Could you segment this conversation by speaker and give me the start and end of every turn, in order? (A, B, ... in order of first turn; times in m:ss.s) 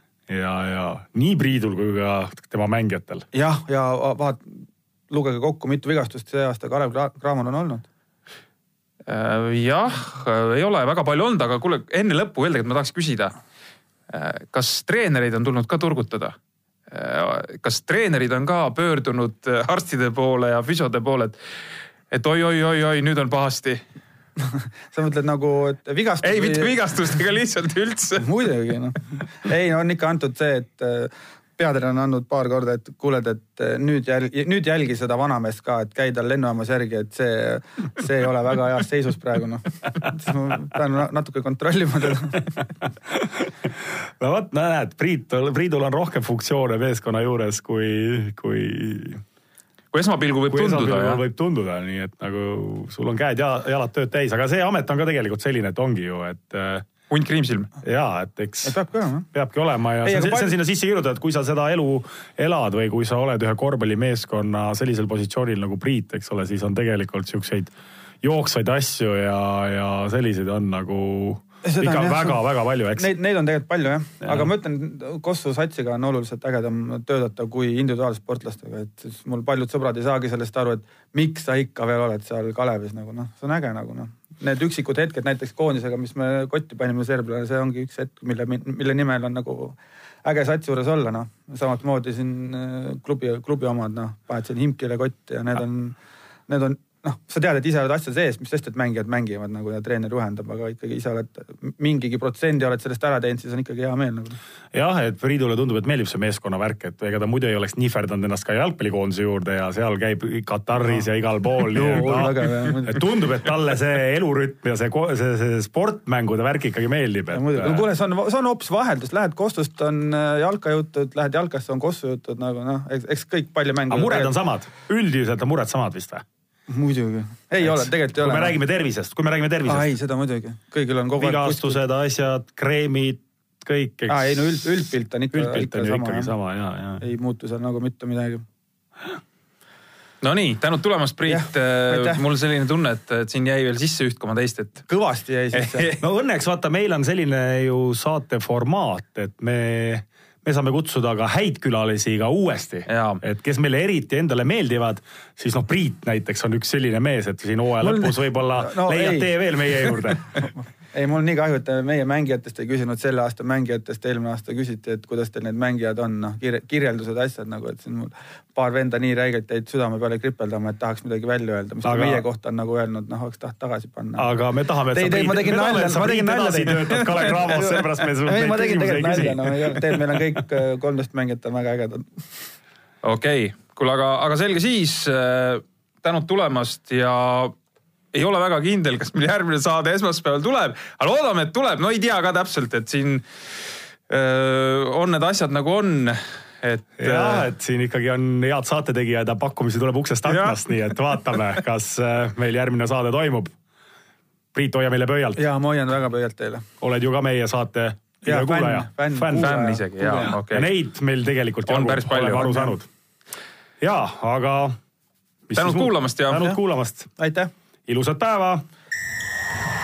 0:00.3-0:03.2 A
0:03.3-0:07.9 B
0:09.1-0:13.3 C
0:14.1-0:16.4 C
0:16.9-0:21.4 C
0:22.1-0:23.8 C
0:24.4-0:26.8 B
0:26.2-0:28.3 C
0:28.2-0:42.7 B
0:43.1-0:49.2 A
0:49.9-0:51.2 C
0:50.5-0:56.9 A
0:57.1-0:57.7 C
0:57.8-0:58.8 A
0:58.6-0:59.3 B
0:59.3-1:13.1 A
1:00.0-1:00.5 B
1:11.6-1:12.4 B
1:13.0-1:44.4 B
1:14.2-1:14.5 A
1:44.7-1:57.9 A
1:51.7-1:53.0 B
1:57.3-2:04.3 B
2:03.9-2:06.2 A
2:06.7-2:08.6 B
2:07.6-2:09.9 A
2:09.7-2:11.8 B
2:11.2-2:17.0 A
2:14.1-2:16.3 B
2:17.0-2:18.4 B
2:20.2-2:24.9 C
2:21.3-2:22.2 B
2:24.9-2:25.9 B
2:25.5-2:26.0 C
2:26.0-2:40.5 A
2:32.9-2:33.2 C
2:37.8-2:54.3 B
2:51.8-2:52.2 A
2:54.2-3:00.2 A
2:54.9-3:02.1 B
3:03.0-3:07.6 C
3:08.1-3:13.2 C
3:14.1-3:17.5 C
3:17.0-3:23.6 A
3:20.3-3:20.6 C
3:24.5-3:25.4 A
3:25.4-3:26.7 B
3:26.8-3:29.6 A
3:28.3-3:30.4 B
3:29.4-3:30.7 C
3:30.1-3:32.9 A
3:31.7-3:32.7 C
3:33.8-3:34.8 A
3:35.5-3:37.1 A
3:35.6-3:36.4 C
3:36.3-3:36.6 B
3:37.2-3:37.5 B
3:37.9-3:38.6 A